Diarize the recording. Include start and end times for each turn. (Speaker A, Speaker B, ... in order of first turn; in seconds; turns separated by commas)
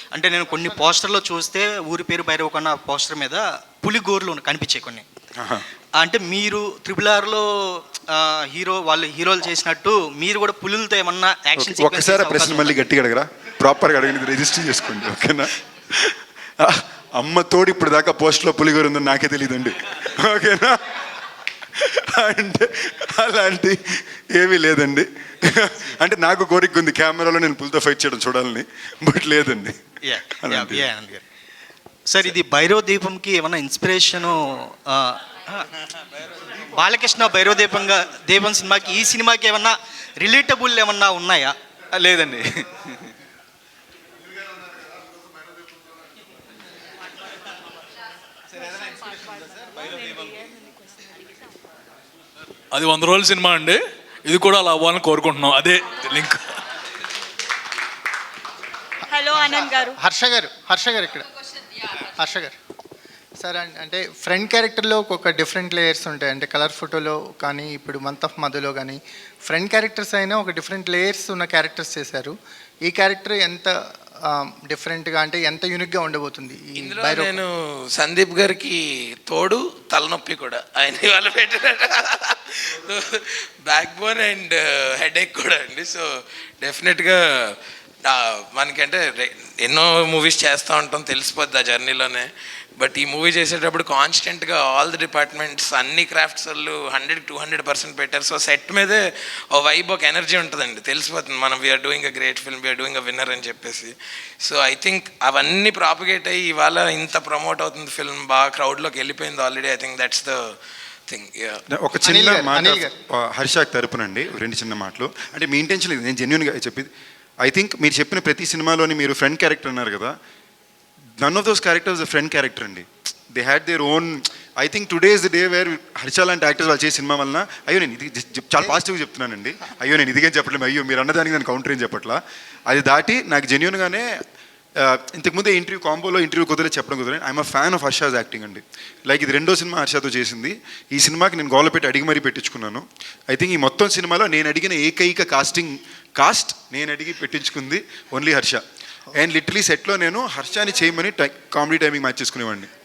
Speaker A: 0.1-5.0, Speaker B: 5.4-5.7, Speaker A: 6.0-12.8, Speaker B: 11.6-20.8, Speaker B: 21.8-29.8, Speaker A: 30.0-31.2, Speaker B: 30.4-30.9, Speaker A: 32.1-35.7, Speaker A: 36.4-41.5, Speaker A: 42.0-42.4, Speaker C: 49.8-50.9, Speaker D: 52.7-56.6, Speaker C: 59.1-60.0, Speaker E: 59.3-61.3, Speaker E: 62.1-62.5, Speaker E: 63.4-72.3, Speaker E: 72.8-73.7, Speaker E: 74.3-77.4, Speaker F: 76.8-86.1, Speaker F: 86.6-110.5, Speaker F: 111.1-111.6, Speaker B: 111.7-116.9, Speaker E: 112.0-112.9, Speaker B: 117.4-120.1, Speaker B: 121.2-134.1, Speaker B: 134.8-148.6, Speaker B: 149.2-152.7